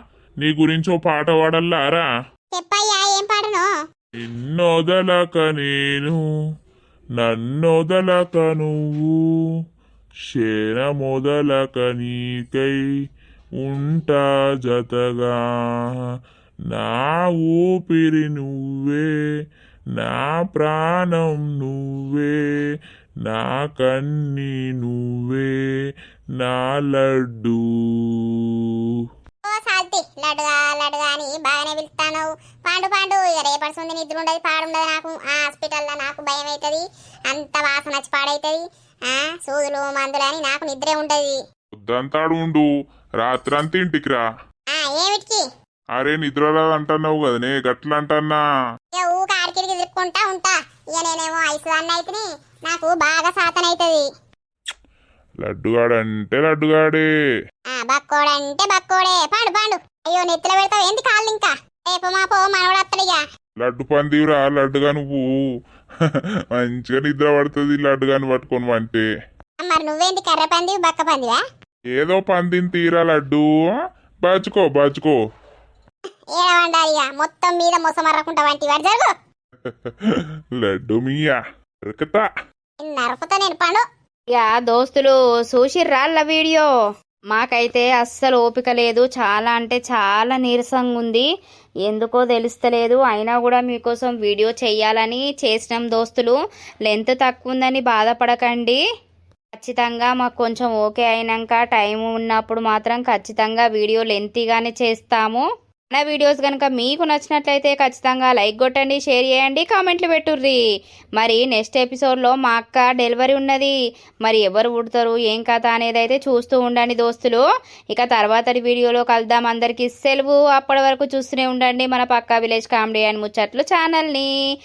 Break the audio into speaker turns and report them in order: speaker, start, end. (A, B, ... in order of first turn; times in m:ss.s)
0:00.4-0:02.0 A
0:02.5-0:03.6 B
0:04.3-0:06.2 A
0:07.2-0:09.1 A
0:10.3-0:12.8 A
0:13.6-0:15.3 A
0:16.7-0:19.1 A
0:20.0-0:22.3 A
0:23.2-0:25.5 A
0:26.4-0:28.4 A
0:29.4-0:41.4 B
0:41.7-0:42.7 A
0:43.2-0:44.2 A
0:44.7-0:45.4 B
0:46.0-0:48.4 A
0:48.9-0:54.0 B
0:55.4-0:57.0 A
0:57.7-1:03.2 B
1:03.6-1:05.2 A
1:06.0-1:09.0 A
1:09.6-1:11.4 B
1:12.0-1:13.5 A
1:14.2-1:15.2 A
1:16.4-1:19.1 B
1:19.7-1:22.2 A
1:22.8-1:23.8 B
1:24.3-1:26.7 C
1:27.3-1:31.2 C
1:31.8-1:36.3 C
1:36.9-1:38.8 C
1:39.6-1:50.6 C
1:51.2-1:53.7 C
1:54.2-1:57.4 C
1:57.9-2:04.3 C